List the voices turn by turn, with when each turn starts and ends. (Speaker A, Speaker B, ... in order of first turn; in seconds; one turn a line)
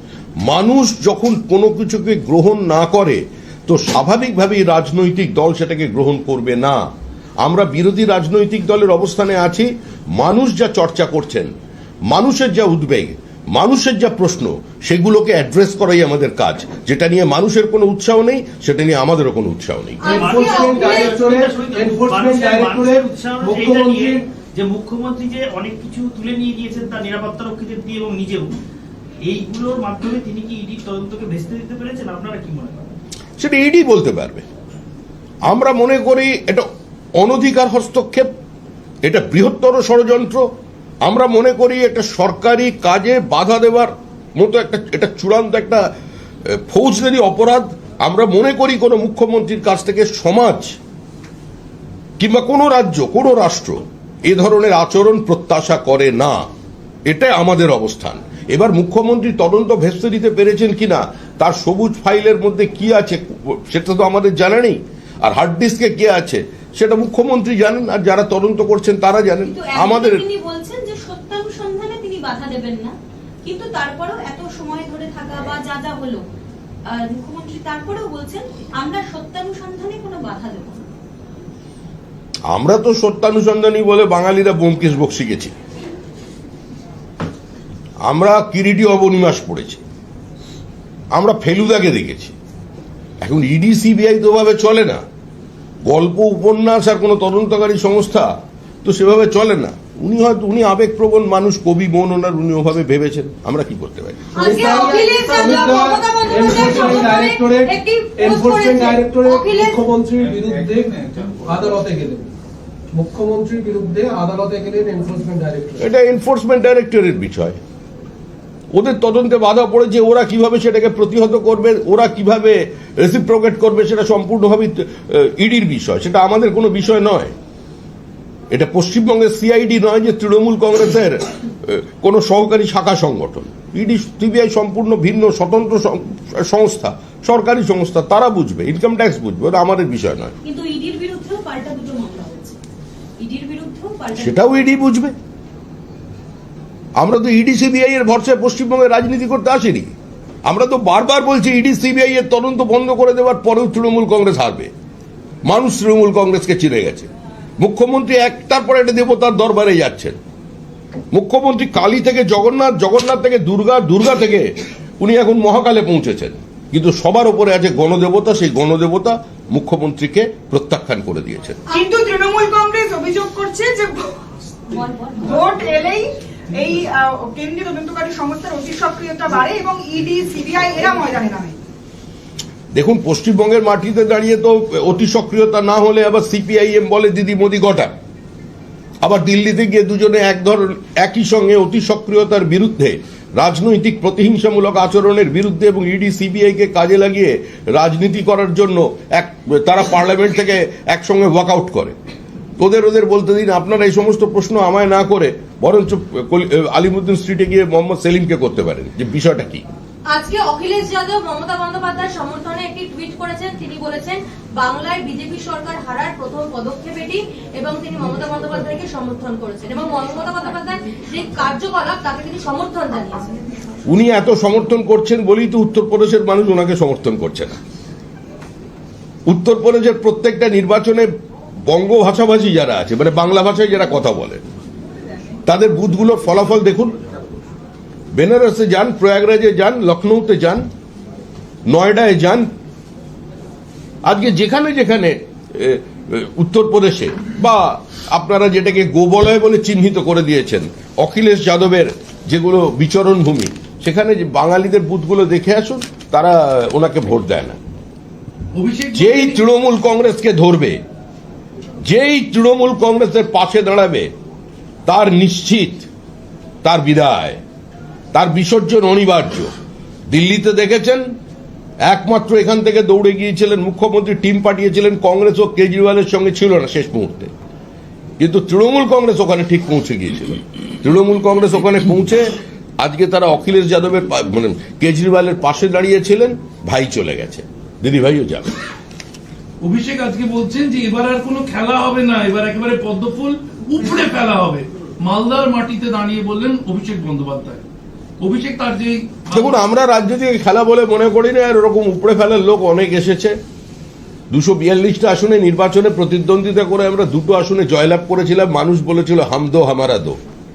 Speaker A: 0.4-6.8
Speaker A: 7.4-11.5
Speaker A: 12.1-20.1
Speaker B: 20.0-21.1
Speaker C: 20.0-28.5
Speaker D: 20.1-24.2
Speaker C: 29.2-32.9
Speaker A: 33.4-34.5
Speaker A: 35.4-38.3
Speaker A: 39.0-40.5
Speaker A: 41.0-45.9
Speaker A: 46.4-50.8
Speaker A: 52.2-56.5
Speaker A: 57.0-70.2
Speaker E: 69.4-76.2
Speaker E: 76.8-80.8
Speaker A: 82.5-85.5
Speaker A: 88.0-89.8
Speaker A: 91.1-92.3
Speaker A: 93.2-95.0
Speaker A: 95.8-104.2
Speaker B: 104.3-109.8
Speaker D: 104.4-112.3
Speaker D: 112.9-115.8
Speaker A: 115.8-117.6
Speaker A: 118.7-127.3
Speaker A: 128.5-140.3
Speaker E: 140.4-142.6
Speaker E: 143.2-144.7
Speaker A: 144.2-145.1
Speaker A: 147.0-149.9
Speaker A: 150.4-154.7
Speaker A: 155.4-160.2
Speaker A: 161.1-171.6
Speaker F: 171.7-174.2
Speaker E: 174.7-175.8
Speaker F: 175.2-181.6
Speaker A: 182.7-187.9
Speaker A: 189.0-201.9
Speaker A: 202.6-209.6
Speaker B: 210.1-223.3
Speaker A: 223.9-227.6
Speaker A: 229.2-231.1
Speaker A: 231.7-234.4
Speaker A: 235.4-237.0
Speaker A: 238.1-240.7
Speaker A: 241.7-242.5
Speaker A: 244.0-257.6
Speaker G: 258.5-259.4
Speaker A: 258.9-260.8
Speaker A: 261.8-264.1
Speaker A: 264.9-265.9
Speaker A: 266.6-267.4
Speaker A: 268.1-269.5
Speaker A: 270.1-271.1
Speaker A: 271.8-277.3
Speaker A: 278.2-288.5
Speaker G: 289.6-297.6
Speaker G: 298.2-299.6
Speaker A: 299.3-303.4
Speaker A: 304.3-310.2